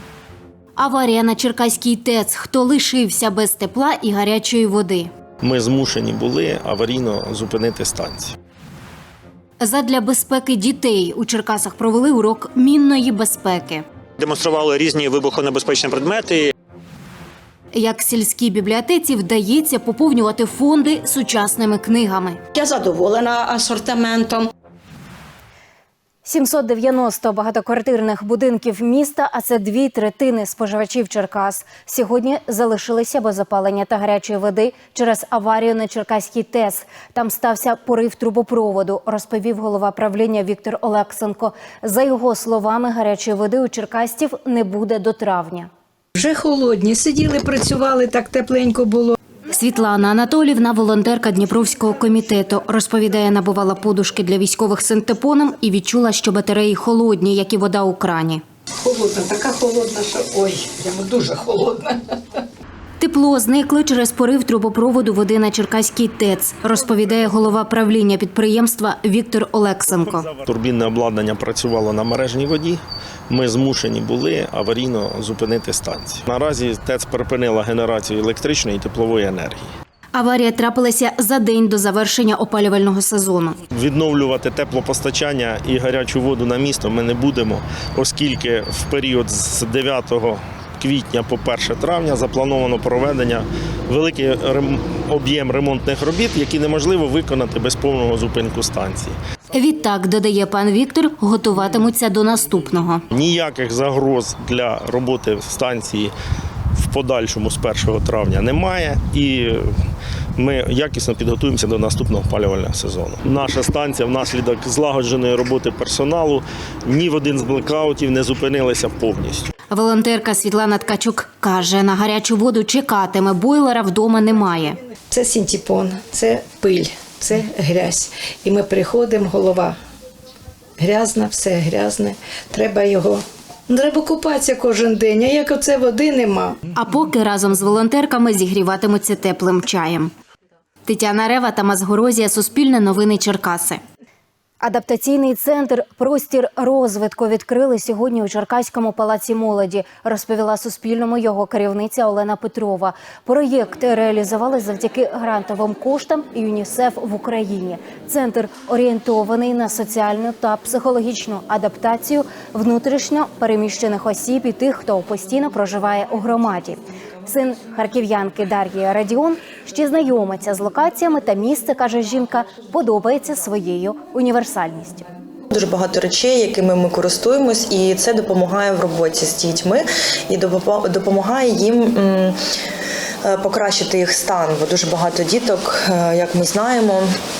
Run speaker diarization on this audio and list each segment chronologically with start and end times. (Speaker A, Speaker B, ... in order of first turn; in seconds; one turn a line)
Speaker A: 0.8-5.1
Speaker B: 5.4-8.3
Speaker A: 9.6-13.8
Speaker C: 14.2-16.5
Speaker A: 17.7-22.4
Speaker D: 22.6-24.4
Speaker A: 26.2-45.7
Speaker D: 46.2-49.1
Speaker A: 49.5-58.4
Speaker D: 58.8-62.0
Speaker A: 63.0-70.3
Speaker B: 69.9-79.7
Speaker A: 80.1-83.6
Speaker B: 83.7-99.2
Speaker A: 99.5-103.0
Speaker B: 103.1-106.1
Speaker B: 106.8-109.7
Speaker B: 110.4-119.5
Speaker A: 119.7-124.8
Speaker D: 125.1-129.8
Speaker D: 130.8-136.6
Speaker A: 136.8-140.1
Speaker A: 140.8-143.8
Speaker A: 144.6-175.1
Speaker E: 175.5-182.3
Speaker E: 183.2-187.0